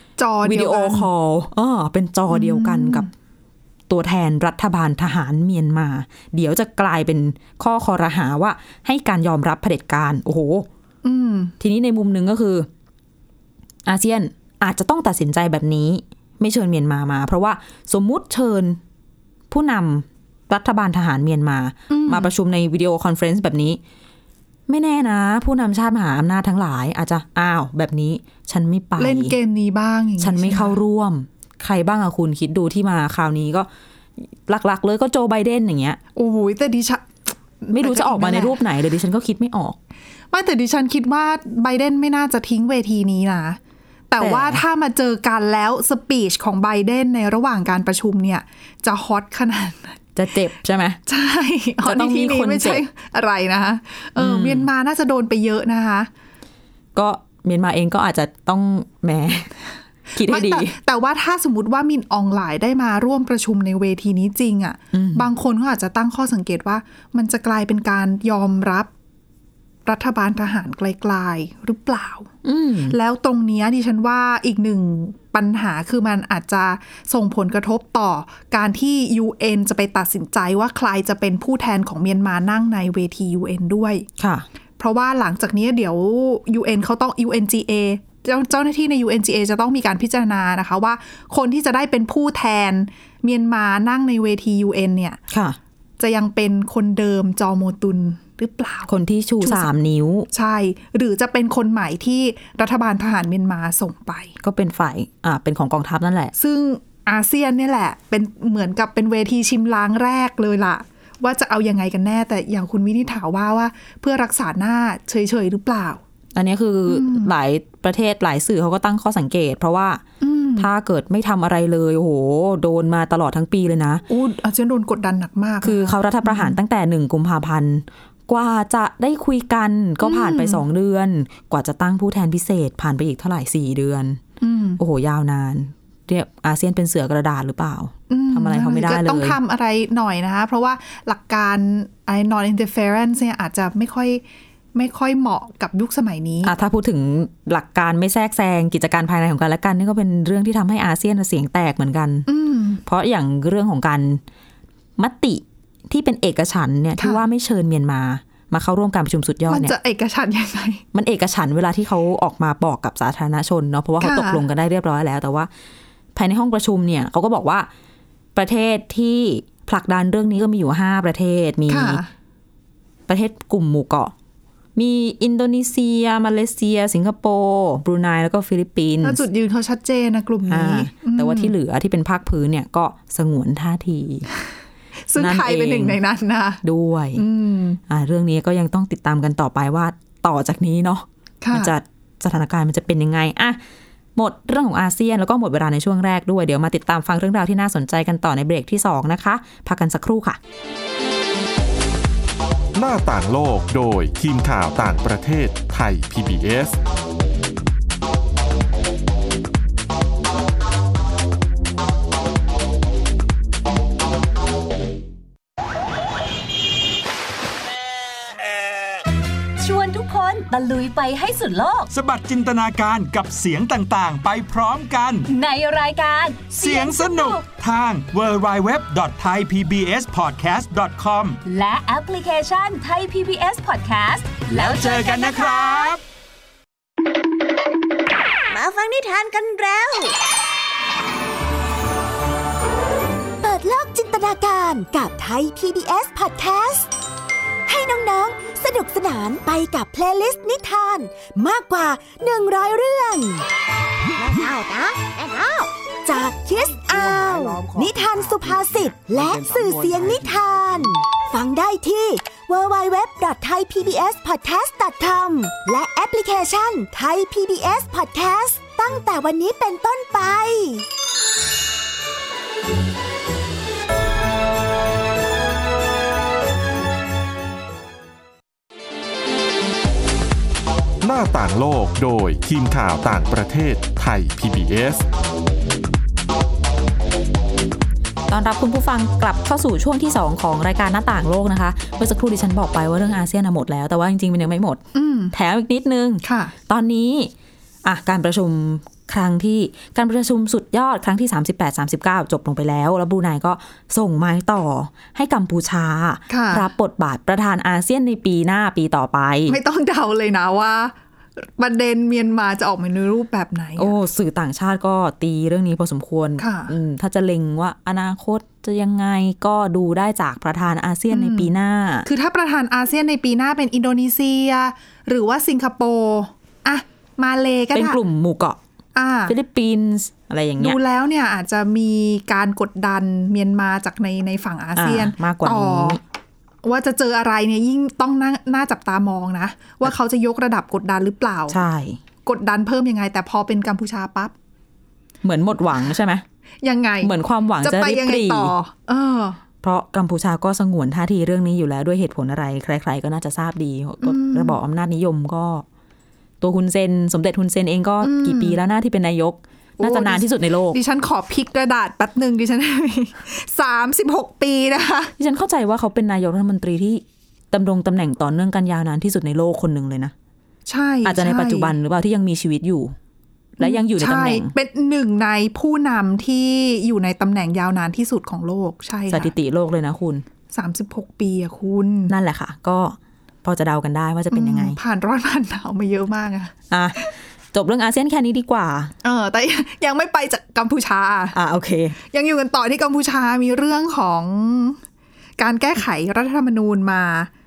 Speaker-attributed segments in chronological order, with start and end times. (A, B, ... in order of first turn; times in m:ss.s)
0:00.2-0:01.1 A
0:00.4-0:03.1 B
0:02.3-0:03.1 A
0:03.9-0:10.7 B
0:11.0-0:11.5 A
0:11.6-0:12.7 B
0:13.8-0:18.8 B
0:19.5-0:23.8 B
0:21.9-0:22.3 A
0:24.7-0:29.3 B
0:29.0-0:30.8 A
0:30.2-0:33.7 B
0:34.2-0:36.0 B
0:36.1-0:38.6 A
0:37.7-0:39.8 B
0:40.3-0:43.6 A
0:44.1-0:50.0 A
0:44.2-0:44.6 B
0:50.2-0:51.0 B
0:51.0-0:56.1 A
0:51.8-0:52.8 B
0:54.2-0:54.7 B
0:56.9-0:59.5 B
1:00.1-1:00.8 B
1:00.2-1:08.9 A
1:04.9-1:05.3 B
1:09.8-1:12.3 A
1:12.4-1:13.0 B
1:12.9-1:24.1 A
1:24.2-1:24.4 B
1:24.8-1:35.2 A
1:35.3-1:35.6 B
1:36.0-1:39.7 A
1:38.9-1:40.3 B
1:40.3-1:44.3 A
1:44.4-1:46.3 B
1:46.4-1:56.0 A
1:56.3-2:00.0 B
1:56.9-1:57.3 A
2:00.2-2:00.7 A
2:00.6-2:04.0 B
2:04.1-2:06.6 A
2:05.6-2:14.2 B
2:10.0-2:10.6 A
2:14.4-2:14.8 A
2:14.8-2:19.4 B
2:18.1-2:24.2 A
2:24.7-2:26.5 A
2:26.4-2:32.3 B
2:32.3-2:32.8 A
2:32.8-2:34.2 B
2:35.0-2:39.7 B
2:37.0-2:37.2 A
2:39.5-2:40.8 A
2:40.9-2:45.5 B
2:44.0-2:44.4 A
2:46.1-2:47.7 B
2:48.3-2:52.0 B
2:51.7-2:52.1 A
2:53.1-2:54.1 B
2:54.8-2:59.2 B
2:59.0-3:01.5 A
3:00.5-3:04.3 B
3:05.1-3:06.6 A
3:05.2-3:06.0 B
3:06.6-3:07.2 B
3:07.2-3:07.8 A
3:07.9-3:13.6 B
3:11.4-3:11.7 A
3:14.2-3:20.4 B
3:22.7-3:26.8 C
3:39.6-3:41.9 D
3:41.9-3:45.3 E
3:45.3-3:47.5 D
3:46.5-3:51.4 E
3:51.4-3:55.9 D
3:54.5-3:56.0 E
3:58.5-4:00.1 F
4:03.4-4:06.9 F
4:07.7-4:13.4 F
4:14.2-4:30.8 F
4:41.0-4:45.0 C
4:48.3-4:57.3 B
4:54.9-4:55.3 A
4:56.2-4:56.5 A
4:57.8-5:09.6 B
5:06.3-5:06.7 A
5:09.5-5:13.9 A
5:13.8-5:22.1 B
5:16.4-5:16.7 A
5:21.1-5:21.5 A
5:22.0-5:28.0 A
5:27.7-5:28.6 B
5:28.9-5:29.3 A
5:29.3-5:30.8 B
5:30.6-5:36.0 A
5:34.8-5:36.0 B
5:36.6-5:41.6 A
5:41.5-5:42.0 B
5:42.2-5:44.3 A
5:45.2-5:46.2 B
5:46.6-5:49.4 A
5:47.0-5:48.5 B
5:49.6-5:55.6 B
5:54.0-5:54.6 A
5:56.4-6:00.8 B
5:58.0-5:58.6 A
5:59.8-6:05.1 A
6:05.2-6:10.1 B
6:10.7-6:11.7 A
6:11.0-6:12.9 B
6:13.6-6:14.5 B
6:13.6-6:19.3 A
6:19.1-6:20.2 B
6:20.5-6:22.1 A
6:22.1-6:24.8 B
6:24.3-6:27.1 A
6:26.7-6:28.9 B
6:29.0-6:31.4 A
6:31.3-6:32.0 B
6:32.1-6:34.8 A
6:35.4-6:37.3 A